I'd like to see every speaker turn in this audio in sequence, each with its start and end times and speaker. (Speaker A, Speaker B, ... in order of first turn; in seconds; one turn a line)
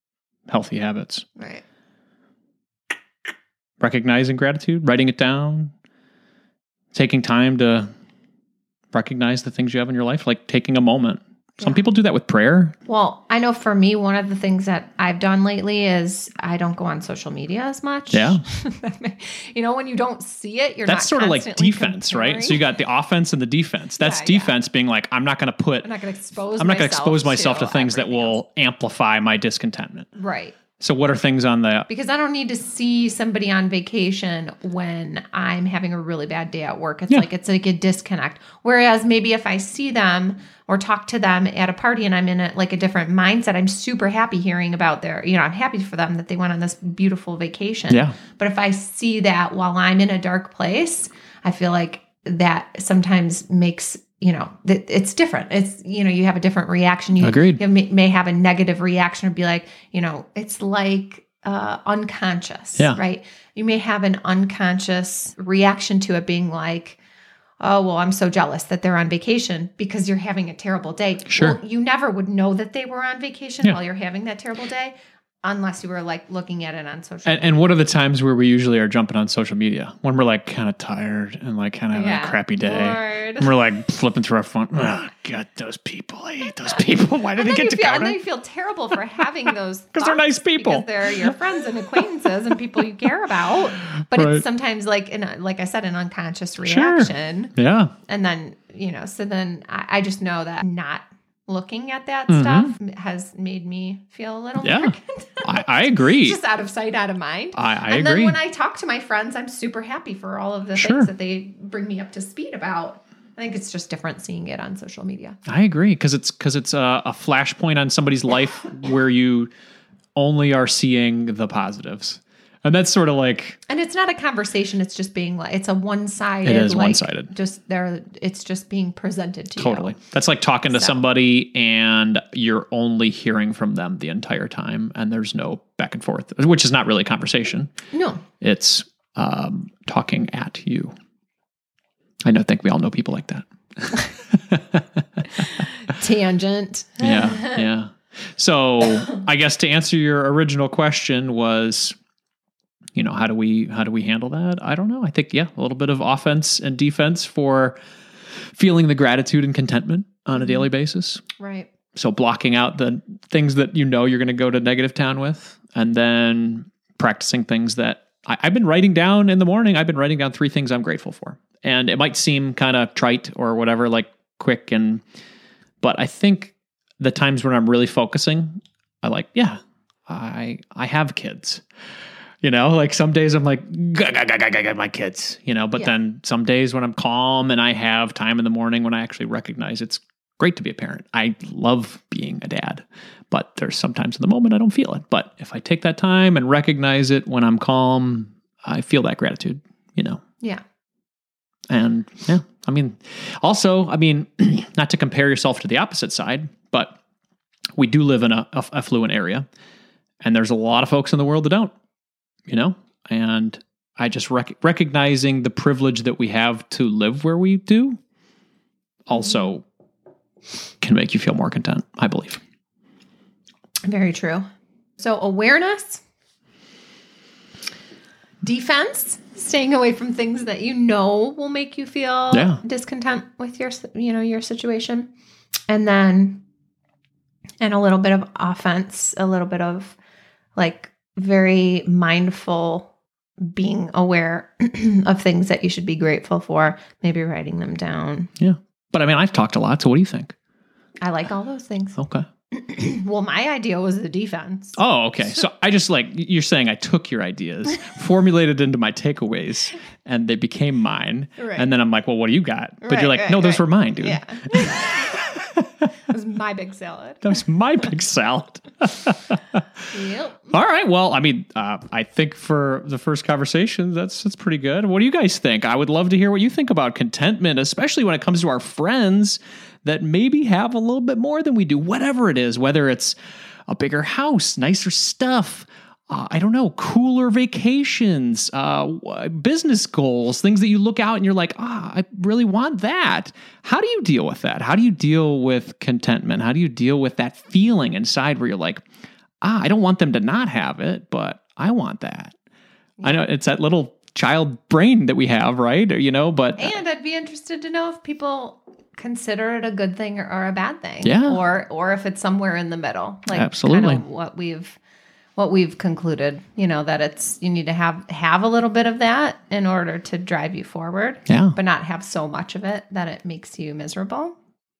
Speaker A: 0.5-1.2
Speaker B: 1.4-1.6
Speaker A: 3.8-5.7
Speaker A: 6.9-7.9
Speaker A: 8.9-12.7
Speaker B: 11.6-11.8
Speaker B: 12.8-22.6
Speaker A: 18.1-18.4
Speaker A: 20.9-25.9
Speaker B: 24.0-24.6
Speaker B: 25.8-28.4
Speaker A: 26.6-30.1
Speaker B: 30.1-30.6
Speaker A: 30.8-31.9
Speaker B: 31.9-67.0
Speaker A: 47.9-48.2
Speaker A: 57.2-57.6
Speaker B: 67.6-77.7
Speaker A: 71.3-71.6
Speaker A: 77.2-88.2
Speaker B: 81.9-83.5
Speaker B: 87.3-97.5
Speaker A: 89.9-91.3
Speaker A: 93.9-94.4
Speaker A: 96.6-97.9
Speaker B: 98.0-115.4
Speaker A: 102.3-102.7
Speaker A: 104.6-106.4
Speaker A: 107.5-108.4
Speaker A: 110.8-111.1
Speaker A: 115.5-119.5
Speaker A: 120.2-123.6
Speaker B: 123.7-129.9
Speaker A: 126.4-127.3
Speaker A: 129.6-137.7
Speaker B: 130.7-131.0
Speaker B: 137.9-138.2
Speaker A: 138.4-140.9
Speaker A: 142.2-145.2
Speaker B: 145.9-147.6
Speaker A: 147.0-151.9
Speaker A: 152.9-157.8
Speaker A: 158.5-161.2
Speaker B: 161.4-161.7
Speaker A: 161.9-175.0
Speaker A: 175.8-181.6
Speaker A: 182.4-200.2
Speaker A: 201.7-207.0
Speaker A: 207.8-209.4
Speaker A: 210.2-211.7
Speaker A: 212.5-218.0
Speaker A: 219.1-219.6
Speaker A: 220.8-222.4
Speaker B: 223.8-224.4
Speaker B: 225.0-226.0
Speaker B: 228.4-235.1
Speaker A: 232.3-232.6
Speaker B: 235.7-236.4
Speaker B: 237.6-240.0
Speaker B: 240.6-248.3
Speaker A: 248.4-250.3
Speaker B: 251.0-252.0
Speaker A: 252.0-252.2
Speaker B: 252.5-254.8
Speaker A: 254.8-265.9
Speaker B: 261.4-261.7
Speaker B: 262.8-264.9
Speaker B: 266.1-267.3
Speaker A: 267.2-269.6
Speaker B: 269.9-270.5
Speaker A: 270.5-283.1
Speaker A: 283.7-298.8
Speaker A: 299.4-302.3
Speaker B: 303.0-303.3
Speaker A: 303.0-306.8
Speaker B: 306.6-314.8
Speaker A: 311.0-311.4
Speaker A: 313.3-314.0
Speaker B: 315.4-324.3
Speaker A: 321.3-321.6